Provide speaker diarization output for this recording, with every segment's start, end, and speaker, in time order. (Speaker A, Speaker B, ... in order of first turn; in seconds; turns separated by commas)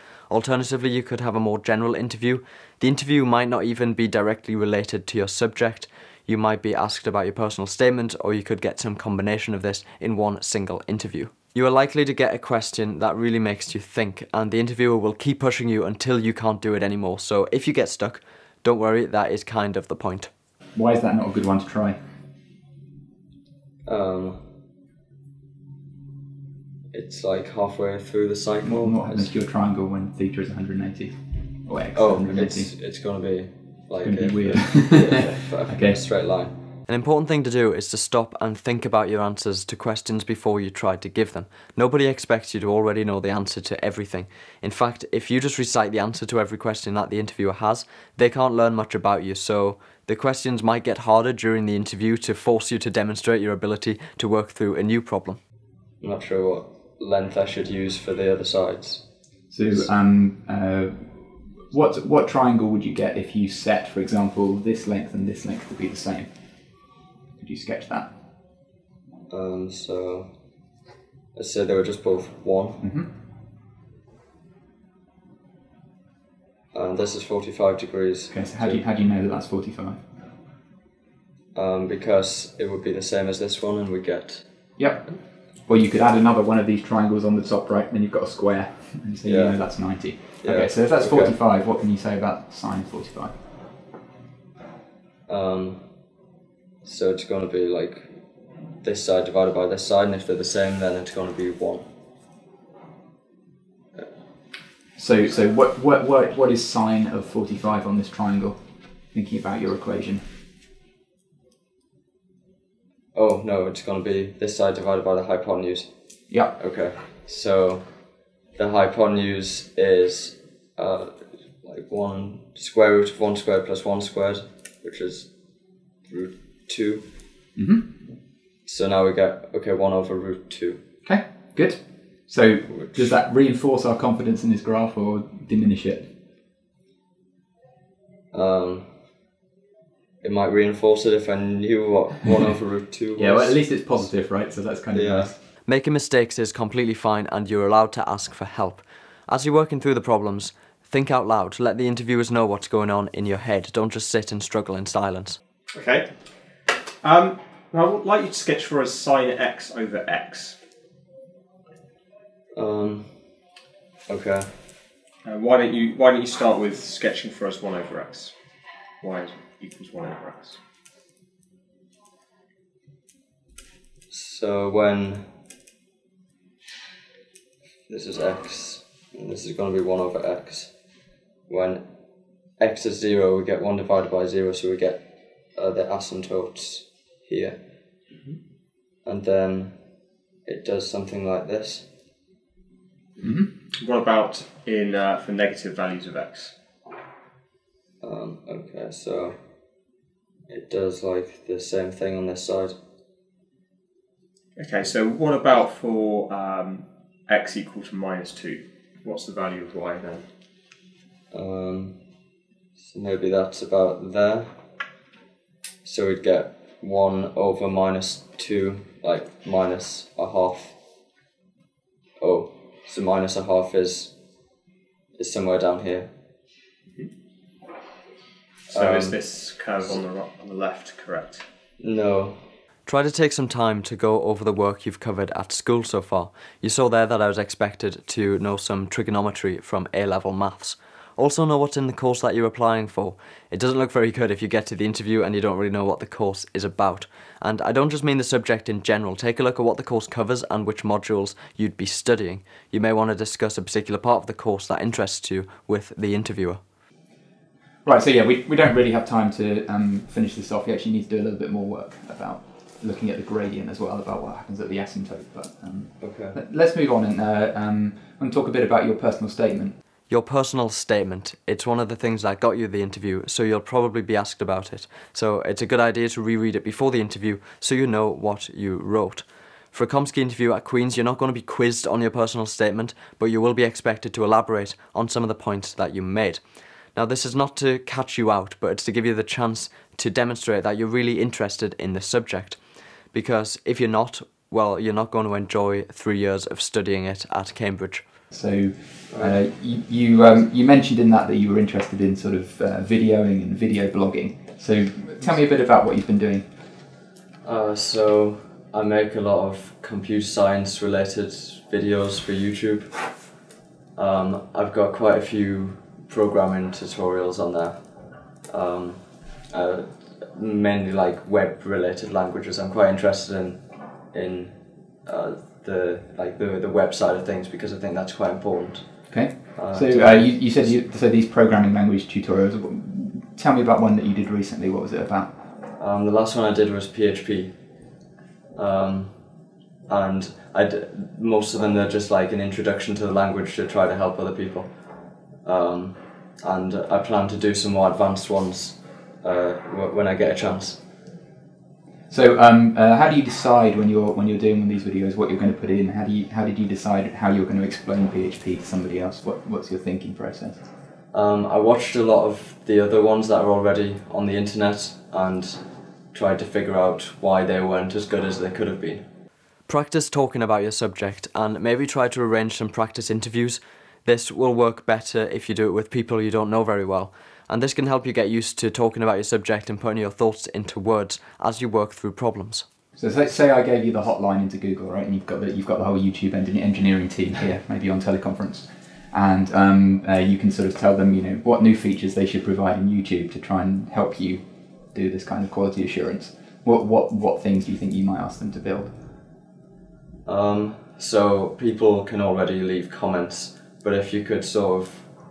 Speaker A: 0.3-20.3, Speaker B: 20.8-22.0, Speaker A: 23.9-24.4, Speaker A: 26.9-29.3, Speaker B: 28.6-32.7, Speaker A: 31.9-55.4, Speaker B: 34.0-36.0, Speaker A: 56.0-59.0, Speaker B: 59.5-66.3, Speaker B: 67.4-68.1, Speaker A: 69.3-70.3, Speaker A: 71.4-72.8, Speaker B: 72.8-73.1, Speaker A: 76.7-78.8, Speaker B: 78.3-80.0, Speaker A: 81.5-84.4, Speaker B: 84.8-85.1, Speaker B: 85.7-93.3, Speaker A: 89.2-89.6, Speaker A: 90.4-91.4, Speaker A: 95.3-95.8, Speaker A: 96.8-98.1, Speaker A: 98.8-101.9, Speaker B: 105.0-108.6, Speaker B: 109.1-110.2, Speaker A: 113.2-115.9, Speaker A: 116.5-117.8, Speaker A: 118.6-125.3, Speaker A: 126.1-127.1, Speaker B: 127.6-127.9, Speaker A: 128.7-130.8, Speaker B: 131.1-136.1, Speaker A: 132.7-133.1, Speaker A: 138.3-138.9, Speaker A: 140.2-143.6, Speaker B: 143.2-145.4, Speaker A: 144.9-155.4, Speaker C: 155.7-156.1, Speaker C: 157.0-160.6, Speaker A: 162.6-163.1, Speaker A: 164.1-164.5, Speaker C: 165.2-168.3, Speaker C: 169.0-170.6, Speaker A: 174.1-175.2, Speaker A: 177.9-180.7, Speaker A: 181.5-181.8, Speaker A: 182.6-185.0, Speaker A: 185.6-187.6, Speaker A: 189.1-189.8, Speaker A: 190.5-191.9, Speaker B: 193.2-193.5, Speaker C: 193.8-196.5, Speaker A: 198.0-199.3, Speaker A: 200.5-202.8, Speaker C: 204.6-210.2, Speaker A: 211.3-212.0, Speaker A: 212.8-214.5, Speaker A: 215.8-220.8, Speaker A: 222.2-224.1, Speaker A: 225.2-226.1, Speaker C: 228.7-231.4, Speaker A: 228.7-229.2, Speaker A: 231.8-256.6, Speaker B: 257.9-269.8, Speaker A: 266.0-266.4, Speaker A: 270.1-286.4, Speaker A: 286.9-292.6, Speaker A: 293.1-298.0, Speaker B: 298.3-306.5, Speaker A: 299.1-299.4, Speaker A: 307.4-313.0, Speaker A: 314.0-317.8, Speaker A: 318.5-323.6, Speaker A: 324.1-324.5, Speaker A: 325.1-328.9, Speaker B: 329.1-335.3, Speaker A: 329.5-330.4, Speaker A: 335.8-337.6, Speaker A: 338.6-339.1, Speaker A: 339.9-344.7, Speaker A: 345.4-350.8, Speaker B: 352.1-360.6, Speaker A: 361.1-365.6, Speaker A: 366.1-369.1, Speaker A: 369.7-382.6, Speaker B: 383.0-394.4, Speaker B: 394.9-398.9, Speaker A: 400.3-405.1